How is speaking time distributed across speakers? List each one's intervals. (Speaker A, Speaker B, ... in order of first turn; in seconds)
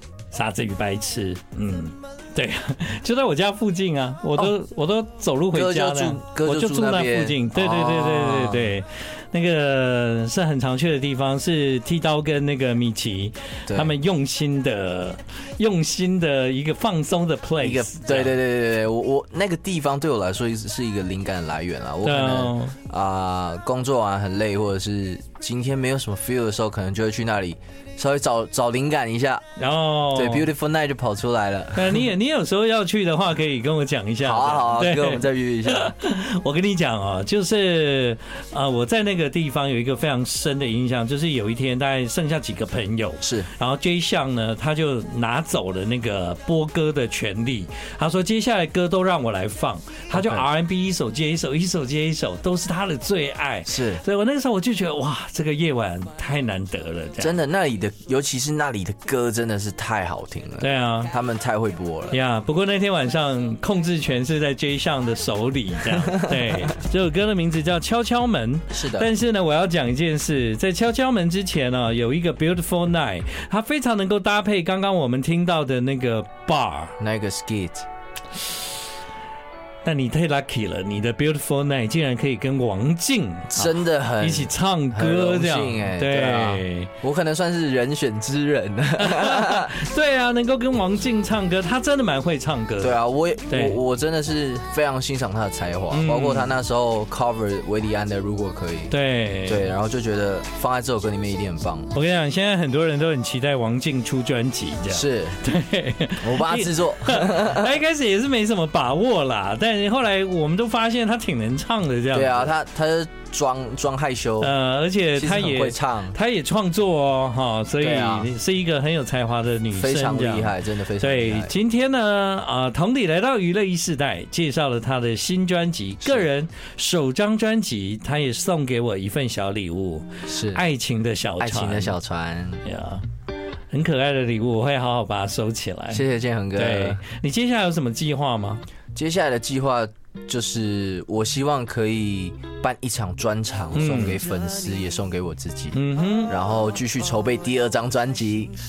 Speaker A: 0.3-18.4, 22.0-22.7, 29.6-30.5, 31.7-57.3, 60.6-61.1, 62.1-76.9, 79.8-86.9, 89.0-93.0, 93.5-93.8, 95.9-96.5, 98.9-99.7, 101.9-112.5, 114.4-132.0, 132.6-133.0, 133.7-138.6, 143.7-144.2, 145.7-146.3
Speaker B: 5.5-8.8, 13.7-13.9, 17.6-29.4, 30.1-32.0, 34.2-35.9, 43.2-43.5, 50.1-50.4, 53.6-54.0, 57.2-62.2, 68.7-69.1, 77.0-77.8, 83.5-89.7, 92.8-98.9, 99.4-101.9, 104.9-105.4, 106.2-107.7, 112.1-114.5, 115.1-116.2, 117.8-118.3, 119.7-121.6, 126.0-126.3, 130.3-130.6, 131.4-132.6, 135.9-137.0, 138.9-148.5